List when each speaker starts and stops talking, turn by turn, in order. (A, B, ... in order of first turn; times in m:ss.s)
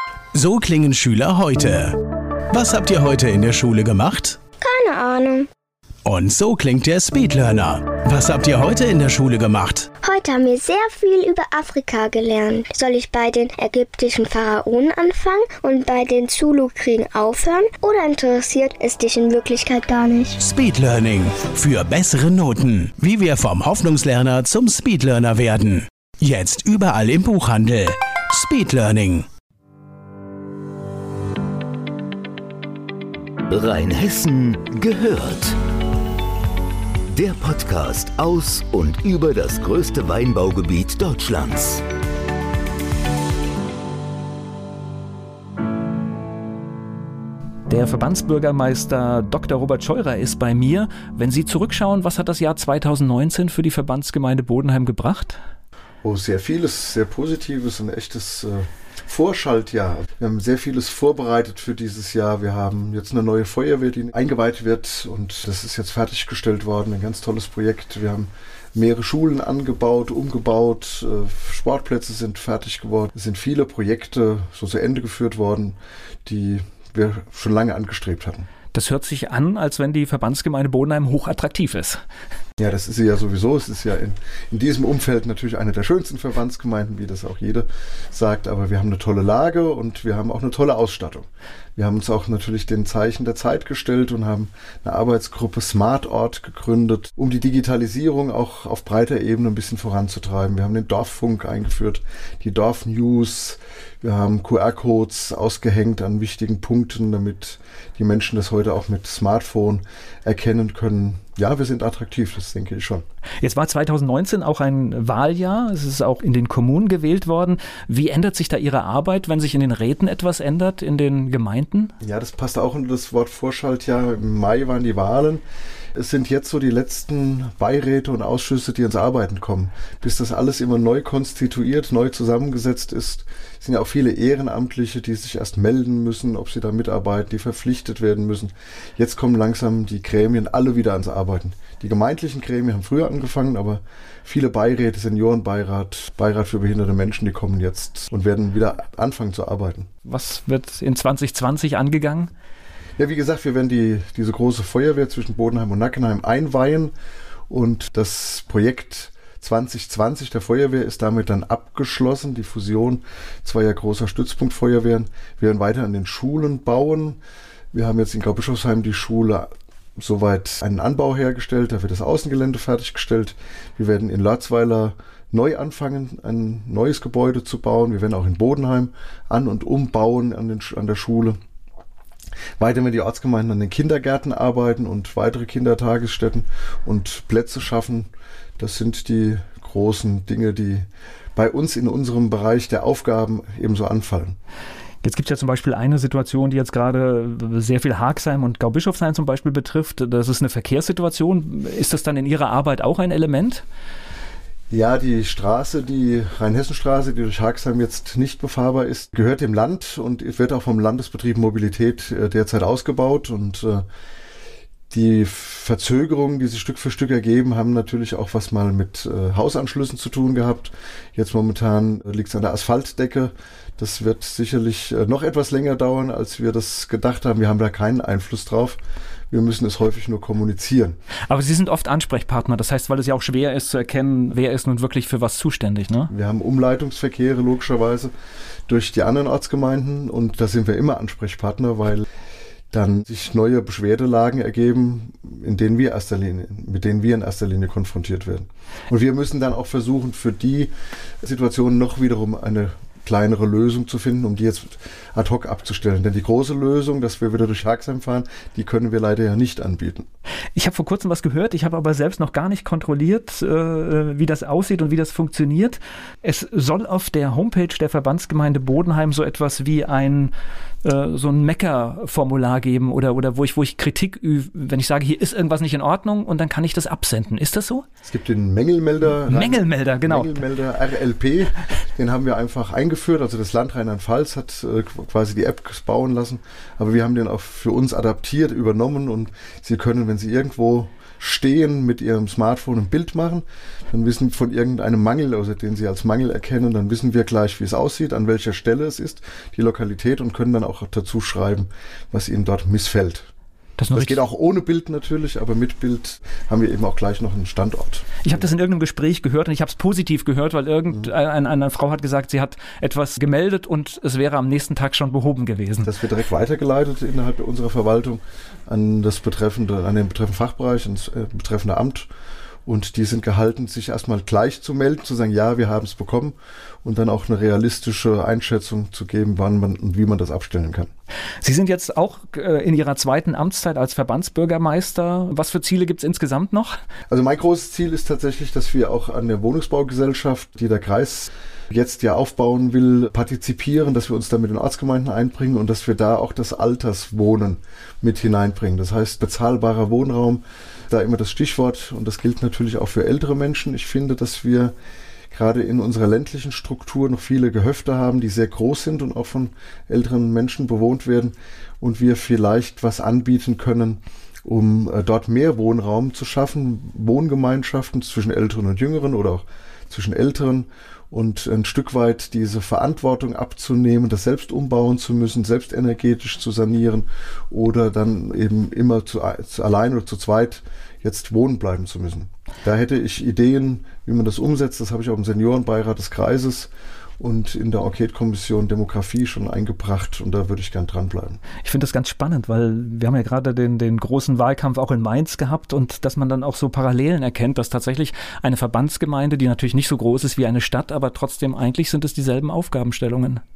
0:00.3-0:02.0 A
0:02.5-0:04.4 A
0:04.6-0:05.5 B
0:06.1-0:09.8 A
0:10.0-0:20.4 B
0:20.4-0:29.2 A
0:33.5-0:35.6 C
0:37.1-0:41.8 C
0:47.7-0:55.4 D
0:56.0-1:18.5 E
1:18.7-1:22.0 D
1:22.6-1:53.0 E
1:53.4-2:01.9 D
2:02.0-2:05.4 E
2:06.0-2:29.9 E
2:30.0-2:32.3 D
2:33.0-2:36.9 E
2:37.5-2:47.2 E
2:47.7-3:01.4 E
3:02.6-3:10.8 E
3:11.4-3:14.4 E
3:15.0-3:23.6 D
3:24.7-3:33.8 E
3:34.9-3:48.8 E
3:49.3-3:51.0 E
3:51.3-3:56.1 D
3:56.1-3:58.1 E
3:58.7-4:02.0 E
4:02.7-4:10.7 E
4:11.2-4:20.1 E
4:20.5-4:30.3 D
4:30.8-4:37.8 D
4:38.0-5:03.3 E
4:39.2-4:40.4 D
5:03.8-5:04.2 D
5:03.9-5:08.4 E
5:08.2-5:15.9 D
5:15.8-5:22.1 E
5:22.6-5:30.9 E
5:31.4-5:36.8 D
5:37.1-5:54.7 E
5:55.3-6:31.4 E
6:31.6-6:43.4 D